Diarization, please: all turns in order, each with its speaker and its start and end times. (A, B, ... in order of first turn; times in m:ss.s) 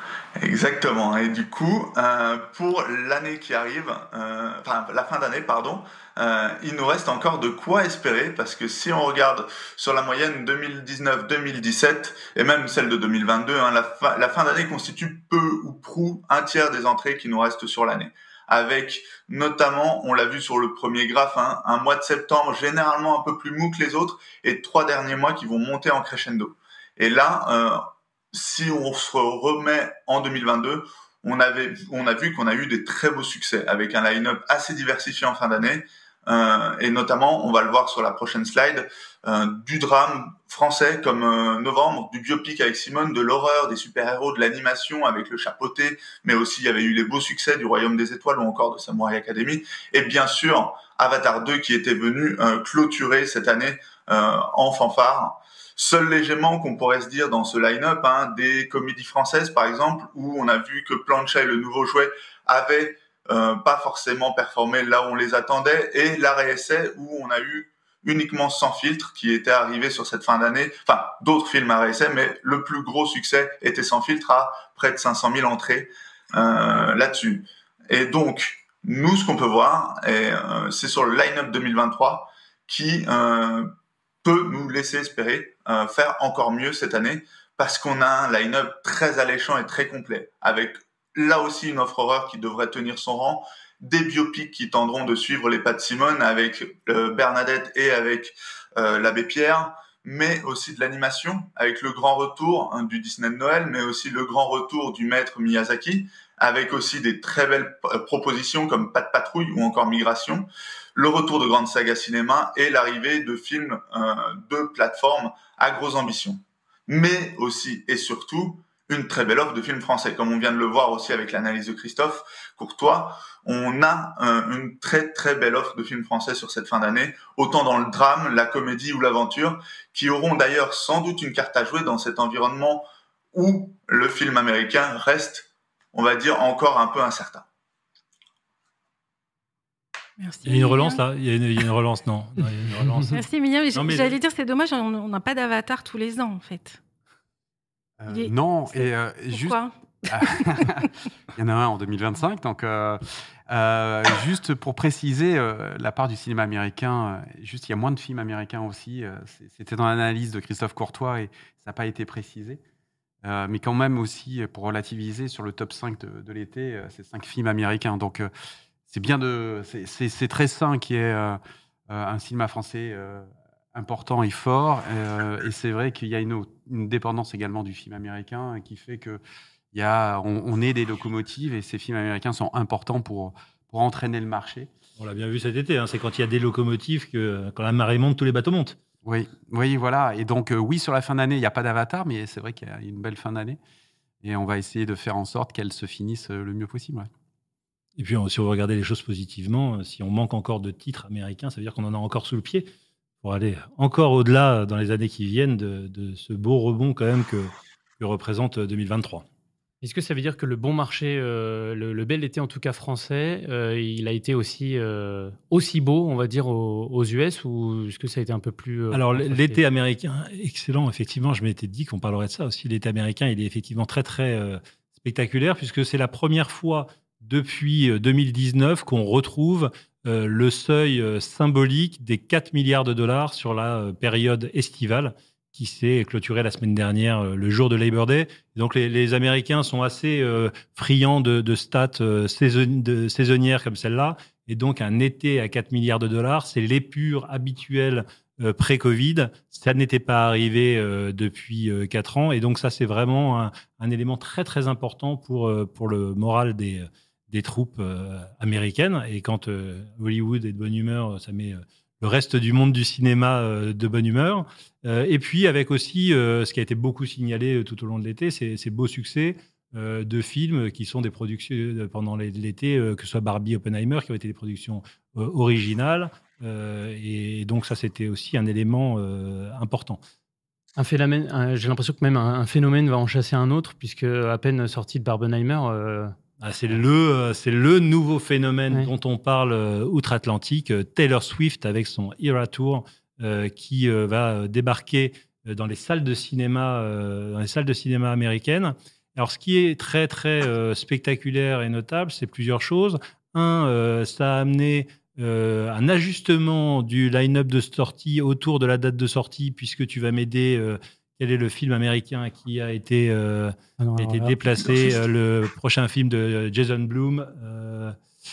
0:00.4-1:23.7 A
1:24.2-2:17.4 A
2:20.2-2:21.0 B
2:20.4-2:24.2 C
2:23.1-2:26.8 B
2:28.0-2:42.6 D
2:28.1-2:30.7 B
2:43.2-2:48.3 D
2:48.9-2:59.2 D
2:59.7-3:04.7 D
3:05.0-3:08.8 C
3:09.0-3:13.6 D
3:14.2-3:17.1 D
3:18.0-3:22.7 C
3:23.2-3:29.2 C
3:29.8-3:39.6 E
3:38.9-4:40.0 C
4:40.8-4:46.2 E
4:46.4-5:18.0 C
5:13.8-5:14.7 E